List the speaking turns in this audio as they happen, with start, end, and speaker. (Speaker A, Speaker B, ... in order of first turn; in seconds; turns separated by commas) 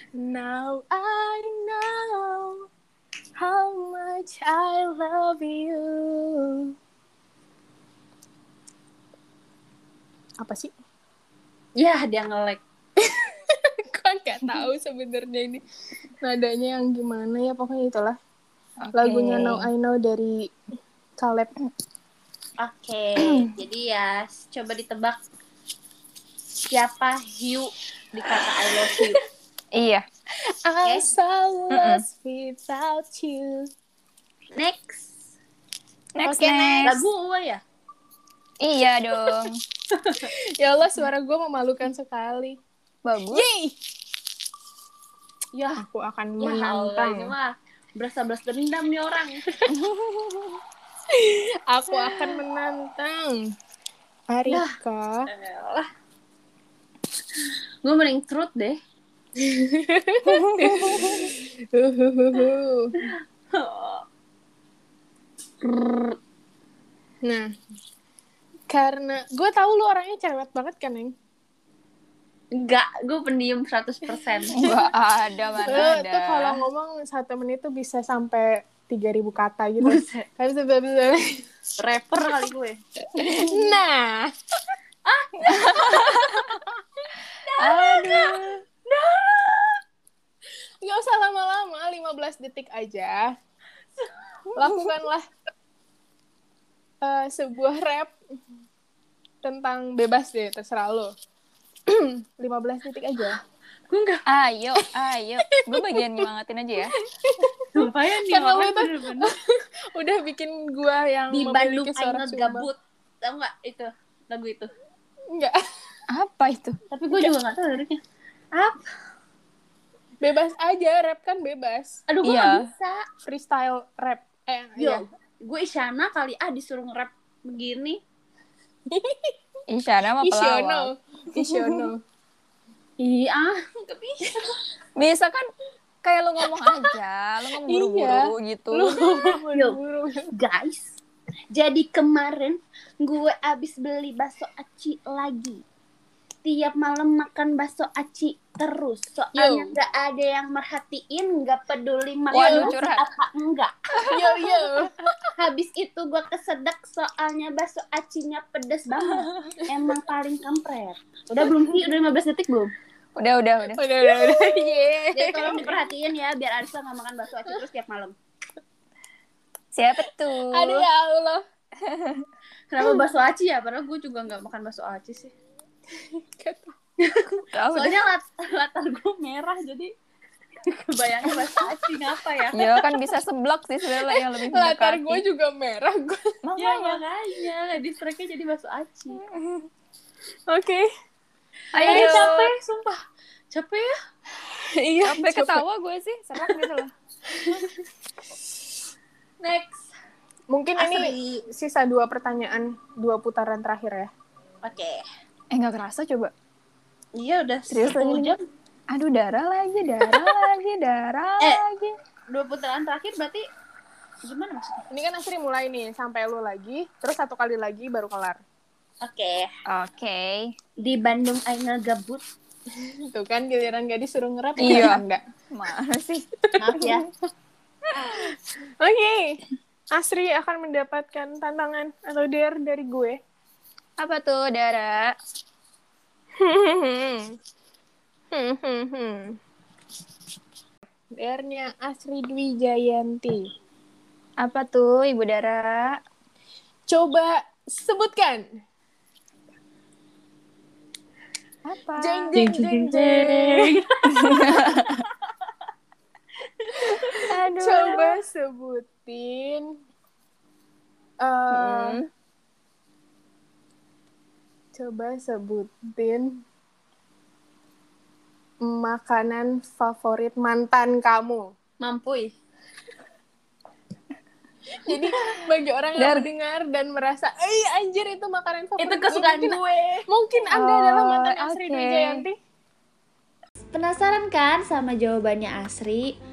Speaker A: 0.2-2.6, Speaker A: 3.4-6.7, Speaker A: 10.4-10.7, Speaker B: 11.8-12.6, Speaker A: 13.0-15.6, Speaker A: 16.2-18.2, Speaker C: 18.8-19.6, Speaker A: 18.9-20.4, Speaker A: 21.2-21.5, Speaker B: 22.6-25.2, Speaker B: 26.7-29.2, Speaker C: 29.7-30.0, Speaker A: 30.3-33.7, Speaker C: 31.7-32.0, Speaker B: 34.5-35.1, Speaker C: 36.1-37.0, Speaker A: 36.2-36.9, Speaker B: 36.8-37.6, Speaker C: 38.6-39.6, Speaker B: 39.9-40.3, Speaker A: 40.2-42.6, Speaker C: 43.0-43.5, Speaker A: 43.3-43.8, Speaker B: 45.5-45.8, Speaker A: 45.8-47.3, Speaker B: 46.4-49.4, Speaker C: 49.7-50.5, Speaker A: 51.1-53.4, Speaker B: 52.0-52.3, Speaker A: 54.3-55.3, Speaker B: 54.5-54.7, Speaker B: 55.2-55.9, Speaker B: 57.8-58.8, Speaker A: 59.4-62.9, Speaker C: 60.3-61.0, Speaker B: 63.0-64.0, Speaker B: 65.6-66.2, Speaker A: 67.2-67.5, Speaker A: 68.7-71.1, Speaker B: 72.5-74.7, Speaker A: 74.3-74.9, Speaker C: 74.5-76.6, Speaker A: 75.6-81.2, Speaker B: 79.8-80.2, Speaker B: 81.8-82.8, Speaker C: 83.2-83.7, Speaker A: 83.5-84.3, Speaker B: 85.0-86.4, Speaker C: 85.5-86.3, Speaker A: 85.9-86.5, Speaker B: 87.4-89.8, Speaker C: 87.6-88.5, Speaker A: 90.8-93.3, Speaker A: 94.5-95.2, Speaker A: 97.0-98.1, Speaker A: 99.4-101.1, Speaker A: 101.9-103.4, Speaker B: 103.9-104.2, Speaker C: 104.3-107.0, Speaker A: 105.5-106.3, Speaker A: 107.0-107.7, Speaker B: 107.7-109.3, Speaker A: 108.2-112.7, Speaker B: 111.3-114.7, Speaker A: 115.3-115.6, Speaker C: 116.1-116.8, Speaker B: 116.9-118.0, Speaker B: 118.5-118.8, Speaker A: 120.2-122.0, Speaker B: 122.1-123.0, Speaker C: 122.2-122.6, Speaker A: 123.2-125.0, Speaker B: 124.8-128.0, Speaker A: 128.9-129.3, Speaker C: 129.7-131.9, Speaker A: 130.2-132.0, Speaker B: 133.0-134.6, Speaker C: 135.0-135.4, Speaker C: 136.0-139.0, Speaker A: 136.6-136.9, Speaker A: 137.5-140.3, Speaker B: 138.9-139.8, Speaker B: 140.3-141.0, Speaker B: 141.5-145.6, Speaker B: 146.4-154.7, Speaker A: 149.3-149.7, Speaker A: 152.3-152.7, Speaker C: 152.3-153.0, Speaker A: 154.1-155.3, Speaker B: 155.4-162.7, Speaker A: 159.2-159.6, Speaker C: 163.2-165.1, Speaker A: 163.8-165.8, Speaker B: 165.1-168.1, Speaker C: 169.7-170.8, Speaker A: 170.4-171.4, Speaker C: 171.8-172.2, Speaker B: 172.7-175.3, Speaker A: 175.9-176.8, Speaker B: 177.0-179.9, Speaker C: 177.5-178.0, Speaker B: 180.7-182.7, Speaker C: 182.5-185.2, Speaker A: 183.9-186.4, Speaker C: 186.4-187.0, Speaker B: 186.6-189.2, Speaker A: 190.5-190.9, Speaker C: 191.7-192.5, Speaker B: 191.7-193.9, Speaker A: 191.8-192.2, Speaker A: 194.4-195.6, Speaker C: 195.0-196.9, Speaker A: 197.4-197.8, Speaker B: 199.4-199.9, Speaker A: 200.5-204.1, Speaker B: 200.8-201.4, Speaker B: 204.6-205.1, Speaker C: 205.5-206.3, Speaker B: 207.2-208.4, Speaker C: 207.7-208.3, Speaker C: 208.9-211.9, Speaker B: 212.3-213.4, Speaker B: 214.2-214.9, Speaker A: 214.9-218.4, Speaker B: 219.0-219.5, Speaker C: 219.7-220.5, Speaker B: 220.8-222.2, Speaker A: 222.7-225.2, Speaker C: 224.6-226.2, Speaker A: 226.4-226.9, Speaker B: 226.6-227.1, Speaker A: 227.9-229.4, Speaker A: 229.9-233.2, Speaker C: 234.0-235.1, Speaker A: 236.4-237.3, Speaker A: 238.3-239.4, Speaker A: 241.2-243.5, Speaker C: 244.4-246.0, Speaker A: 246.9-248.4, Speaker C: 251.7-252.3, Speaker A: 252.0-253.7, Speaker B: 252.3-254.5, Speaker C: 254.1-254.9, Speaker A: 256.9-259.7, Speaker C: 257.1-258.1, Speaker A: 261.2-262.0, Speaker B: 261.5-262.0, Speaker A: 264.7-266.4, Speaker A: 268.6-271.4, Speaker B: 271.8-272.3, Speaker A: 274.8-282.4, Speaker C: 276.0-276.3, Speaker B: 278.8-280.1, Speaker C: 280.5-282.2, Speaker B: 283.7-286.1